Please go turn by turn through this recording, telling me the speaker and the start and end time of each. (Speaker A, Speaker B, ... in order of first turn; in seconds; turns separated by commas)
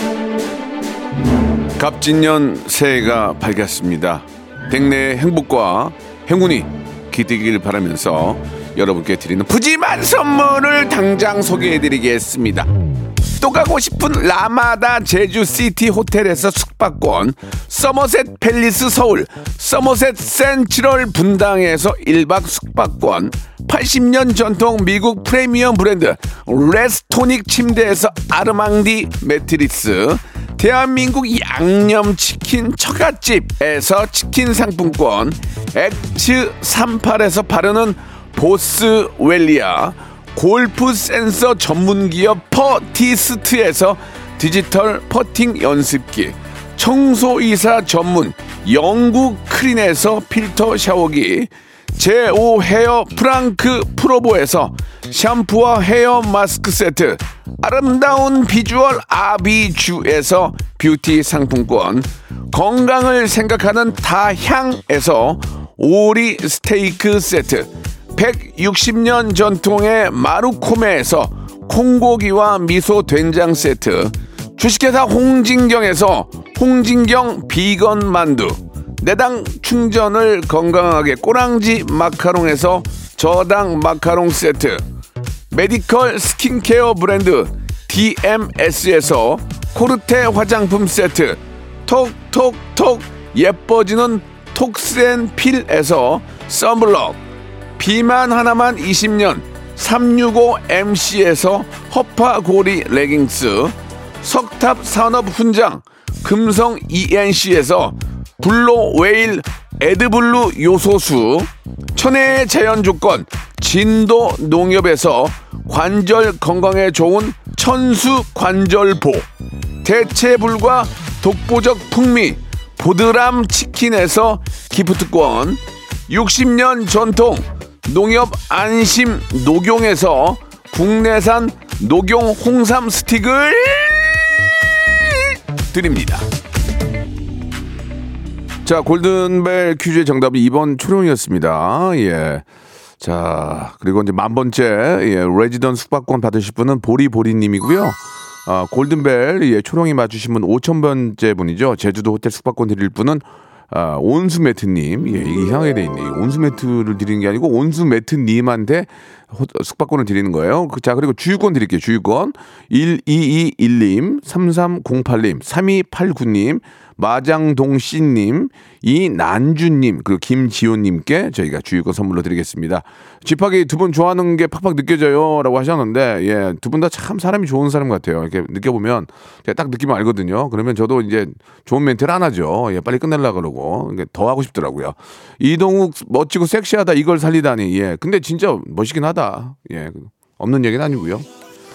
Speaker A: 1.8-12.7, Speaker A: 13.3-84.8, Speaker A: 85.5-97.2, Speaker A: 97.8-119.3, Speaker A: 119.8-134.3, Speaker A: 135.7-136.2, Speaker A: 138.7-142.4, Speaker A: 143.0-191.3